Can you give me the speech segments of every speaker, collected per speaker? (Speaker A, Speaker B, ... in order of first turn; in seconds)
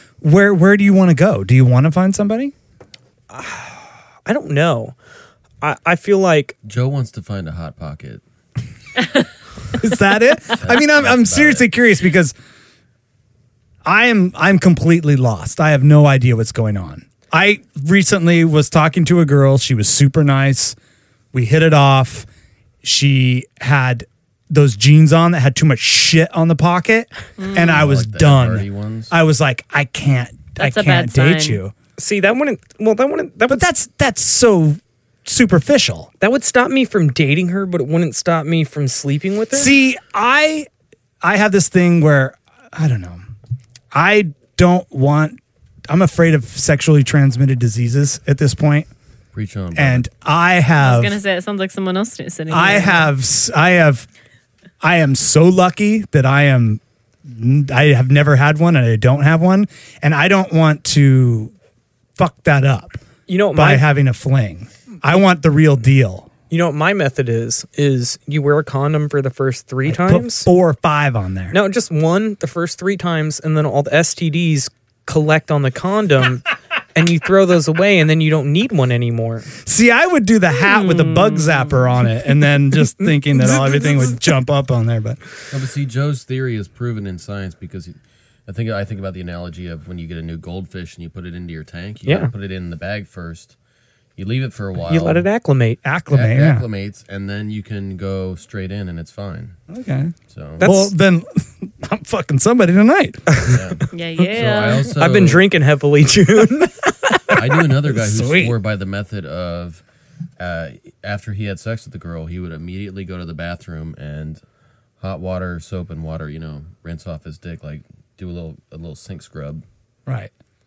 Speaker A: 0.2-2.5, 9.8-12.3, 13.8-20.8, 21.3-22.3, 22.8-31.7, 33.5-36.1, 39.5-40.7, 41.2-43.2, 43.9-48.9, 49.8-51.2, 52.5-54.1, 54.8-61.5, 62.2-63.0, 63.5-66.3, 69.9-71.6, 79.6-85.2, 95.8-96.7, 99.7-103.3, 107.9-108.5
Speaker B: 3.3-5.0, 5.6-6.5, 32.0-33.7, 36.2-39.7, 63.3-63.9, 66.5-70.5, 71.5-79.5, 82.9-84.2, 92.1-92.3, 94.9-95.8, 100.6-100.9, 104.9-107.0
Speaker C: 6.7-8.2, 10.6-11.7, 27.6-29.1, 49.3-50.1, 85.5-93.5, 94.2-95.3, 96.1-99.6, 100.3-100.7, 103.5-105.5, 107.3-109.8, 110.4-114.4, 115.0-119.6
Speaker D: 27.4-27.8, 30.6-31.6, 50.8-53.1, 80.7-81.7, 103.9-104.9